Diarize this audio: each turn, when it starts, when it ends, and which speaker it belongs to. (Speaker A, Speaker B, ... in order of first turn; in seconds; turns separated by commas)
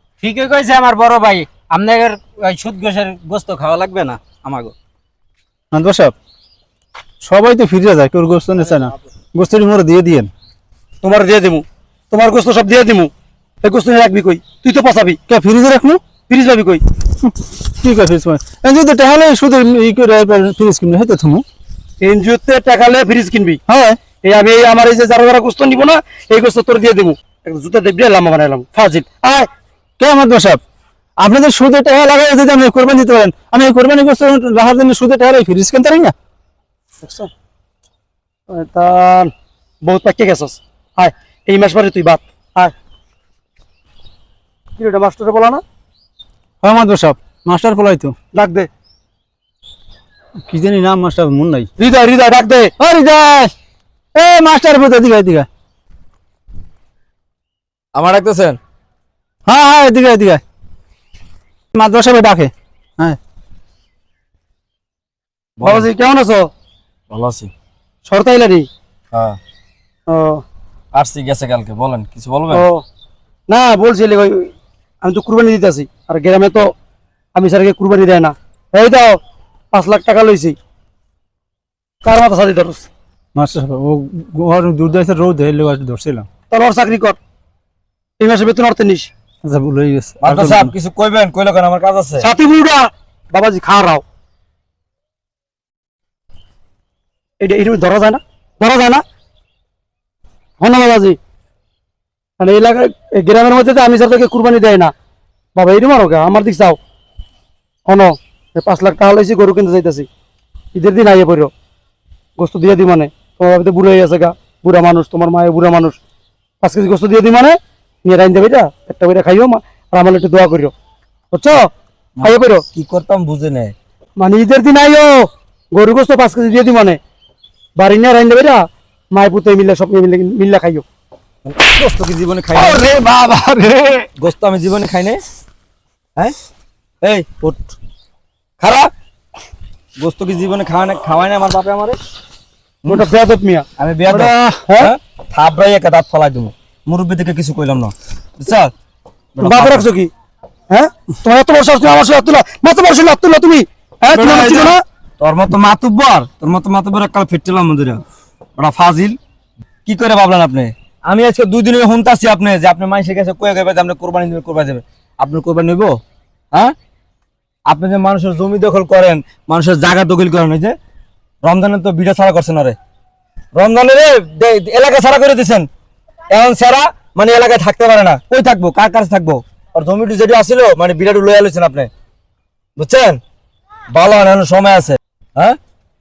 Speaker A: 0.2-4.7, Speaker B: 5.7-6.1, Speaker B: 7.2-10.3, Speaker C: 11.0-13.1, Speaker C: 13.6-15.2, Speaker B: 15.3-16.0, Speaker C: 16.3-16.8, Speaker B: 17.2-21.4, Speaker C: 22.0-23.6, Speaker B: 23.7-24.0, Speaker C: 24.2-29.5, Speaker B: 30.0-30.6, Speaker B: 31.2-36.1, Speaker C: 37.0-37.3, Speaker C: 38.5-39.3, Speaker C: 39.8-42.7, Speaker C: 44.8-45.6, Speaker B: 46.6-48.1, Speaker C: 48.3-48.7, Speaker B: 50.5-51.7, Speaker C: 51.8-52.7, Speaker B: 52.8-53.5, Speaker B: 54.1-55.5, Speaker D: 57.9-58.6, Speaker B: 59.5-60.4, Speaker B: 61.7-63.2, Speaker D: 65.6-65.9, Speaker C: 65.6-66.5, Speaker D: 67.1-67.5, Speaker C: 68.1-68.7, Speaker D: 69.1-69.4, Speaker C: 70.1-70.4, Speaker D: 70.9-72.7, Speaker C: 72.5-72.8, Speaker C: 73.5-74.5, Speaker C: 75.0-76.7, Speaker C: 77.3-79.2, Speaker C: 79.7-80.5, Speaker C: 82.0-82.9, Speaker B: 83.3-86.3, Speaker C: 86.5-87.2, Speaker C: 88.2-89.1, Speaker B: 89.4-90.7, Speaker D: 90.2-92.3, Speaker C: 92.2-94.0, Speaker C: 97.4-99.0, Speaker C: 100.6-101.2, Speaker C: 102.4-104.9, Speaker C: 105.5-106.8, Speaker C: 107.8-110.1, Speaker C: 110.7-111.5, Speaker C: 112.4-116.0, Speaker C: 116.6-120.7, Speaker C: 121.3-121.7, Speaker D: 122.2-123.7, Speaker C: 122.2-122.6, Speaker C: 124.2-127.0, Speaker C: 127.8-130.8, Speaker D: 131.4-132.9, Speaker B: 132.6-134.1, Speaker D: 134.2-135.2, Speaker D: 137.0-137.6, Speaker D: 138.6-138.9, Speaker D: 140.0-142.0, Speaker C: 142.9-143.6, Speaker D: 143.8-148.7, Speaker B: 144.1-144.6, Speaker C: 144.7-144.9, Speaker D: 149.3-149.9, Speaker C: 149.4-150.1, Speaker C: 150.7-154.8, Speaker D: 154.1-158.0, Speaker D: 158.6-159.2, Speaker D: 159.8-165.9, Speaker D: 167.7-170.7, Speaker D: 171.4-172.8, Speaker D: 173.6-175.7, Speaker D: 176.3-181.9, Speaker D: 182.8-183.2, Speaker D: 183.9-185.6